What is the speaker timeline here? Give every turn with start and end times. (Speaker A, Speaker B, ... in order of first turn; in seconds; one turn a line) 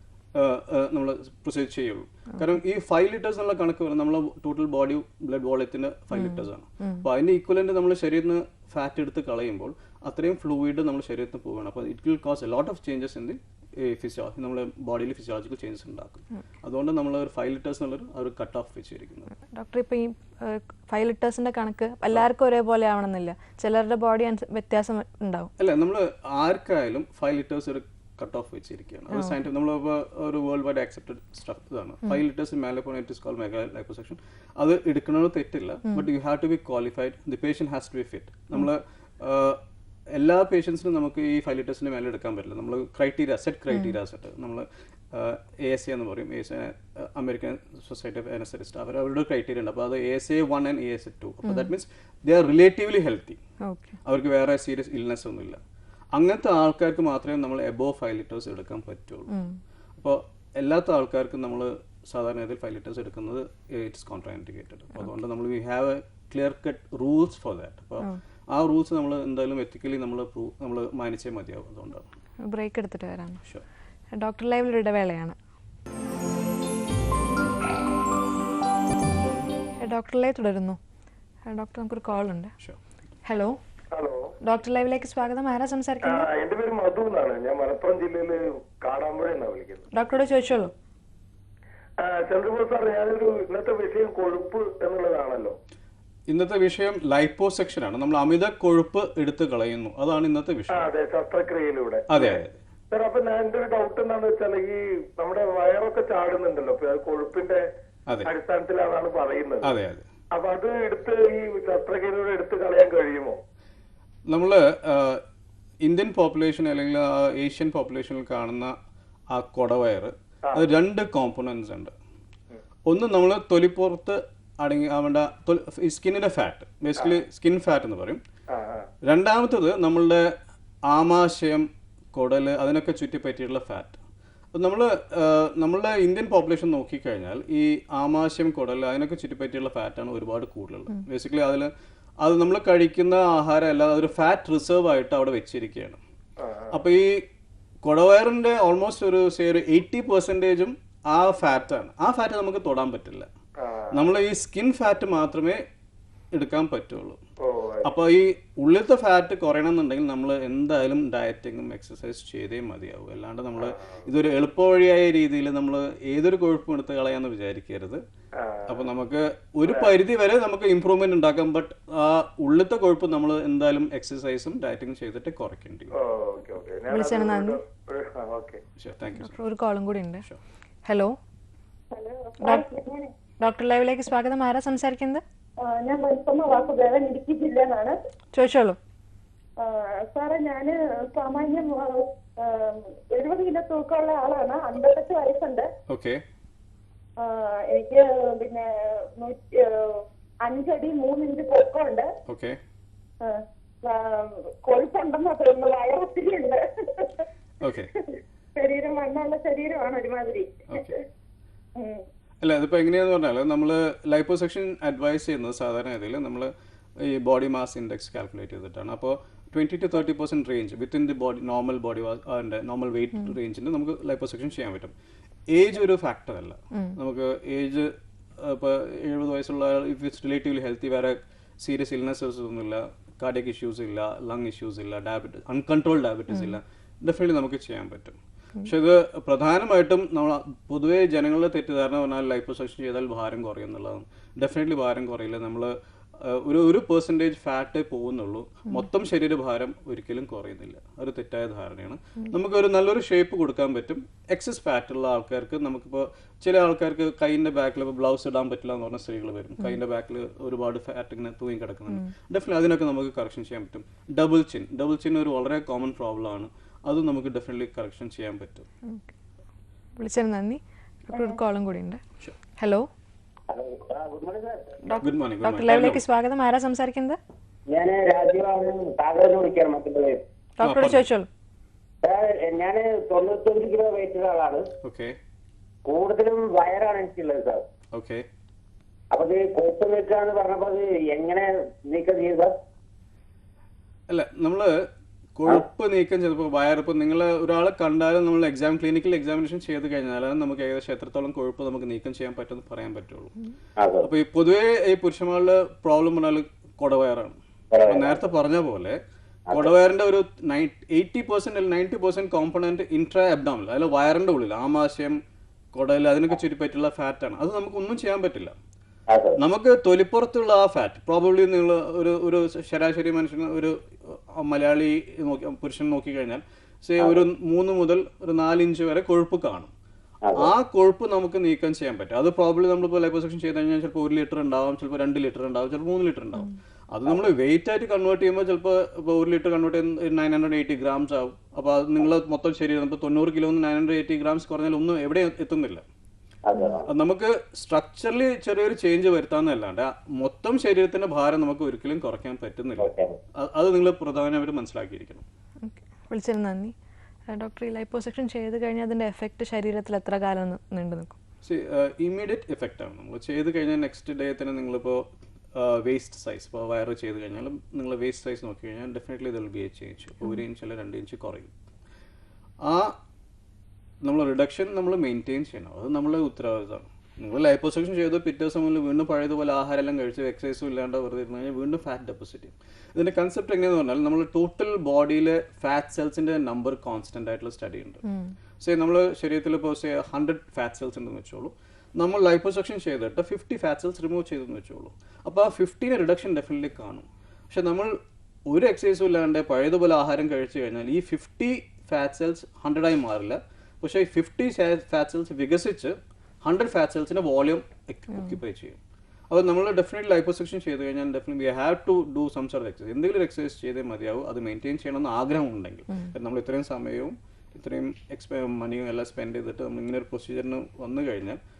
Speaker A: 0.3-19.3
Speaker B: 6.2-7.0
Speaker B: 19.5-25.5
Speaker A: 25.6-39.6
Speaker A: 40.1-53.4
Speaker B: 53.6-53.9
Speaker A: 54.0-55.6
Speaker A: 56.1-59.3
Speaker B: 59.3-59.6
Speaker A: 60.0-72.1
Speaker B: 72.4-73.4
Speaker B: 74.1-75.3
Speaker B: 79.8-80.8
Speaker B: 81.5-82.5
Speaker B: 83.2-83.6
Speaker C: 83.9-84.3
Speaker B: 84.4-86.3
Speaker C: 86.0-89.9
Speaker B: 89.9-90.7
Speaker C: 92.0-95.5
Speaker A: 96.3-100.9
Speaker C: 100.7-102.4
Speaker A: 102.1-102.6
Speaker C: 102.9-107.6
Speaker C: 108.2-109.7
Speaker A: 109.6-110.0
Speaker C: 110.3-113.4
Speaker A: 114.3-115.2
Speaker A: 115.8-118.7
Speaker A: 119.3-121.9
Speaker A: 122.9-128.2
Speaker C: 128.5-128.9
Speaker A: 129.0-130.2
Speaker A: 130.9-134.0
Speaker A: 134.5-141.7
Speaker A: 142.2-146.0
Speaker C: 146.4-146.8
Speaker A: 146.7-147.2
Speaker A: 147.8-153.3
Speaker C: 153.6-154.0
Speaker A: 153.9-155.6
Speaker A: 156.3-157.2
Speaker C: 157.4-157.9
Speaker A: 157.8-168.0
Speaker C: 163.6-164.0
Speaker C: 168.4-168.9
Speaker A: 168.7-175.9
Speaker C: 169.6-169.9
Speaker C: 175.9-178.6
Speaker B: 176.9-177.6
Speaker A: 178.8-179.4
Speaker B: 179.2-180.2
Speaker B: 180.8-181.2
Speaker D: 181.9-183.1
Speaker B: 183.4-185.2
Speaker D: 185.6-187.9
Speaker B: 188.3-188.8
Speaker D: 189.6-195.7
Speaker A: 195.9-196.2
Speaker D: 197.2-202.1
Speaker A: 202.3-202.6
Speaker D: 203.2-207.2
Speaker A: 207.6-207.9
Speaker D: 208.6-210.9
Speaker A: 210.7-210.9
Speaker D: 211.8-212.0
Speaker A: 212.4-224.9
Speaker A: 225.5-268.7
Speaker B: 226.7-227.0
Speaker B: 236.3-236.6
Speaker B: 270.0-272.0
Speaker B: 272.6-272.9
Speaker E: 273.5-274.7
Speaker B: 274.9-277.2
Speaker A: 275.0-276.0
Speaker E: 277.7-280.2
Speaker B: 280.6-281.3
Speaker A: 280.6-281.0
Speaker E: 282.0-284.6
Speaker A: 284.8-285.1
Speaker E: 285.9-287.6
Speaker A: 287.9-288.2
Speaker E: 289.1-292.6
Speaker A: 294.1-294.7
Speaker A: 295.4-303.3
Speaker E: 303.8-304.1
Speaker A: 304.0-307.4
Speaker E: 307.7-308.2
Speaker A: 307.9-309.0
Speaker A: 309.5-315.2
Speaker A: 315.7-318.5
Speaker A: 319.4-329.7
Speaker E: 327.0-327.2
Speaker E: 330.2-330.5
Speaker A: 330.3-345.8
Speaker E: 346.5-346.9
Speaker A: 346.9-355.2
Speaker E: 352.8-353.1
Speaker B: 355.6-356.7
Speaker B: 357.3-361.2
Speaker A: 361.4-371.5
Speaker A: 372.6-372.9
Speaker A: 374.0-388.0
Speaker B: 388.0-388.3
Speaker A: 388.6-397.9
Speaker A: 398.5-408.8
Speaker A: 409.3-421.4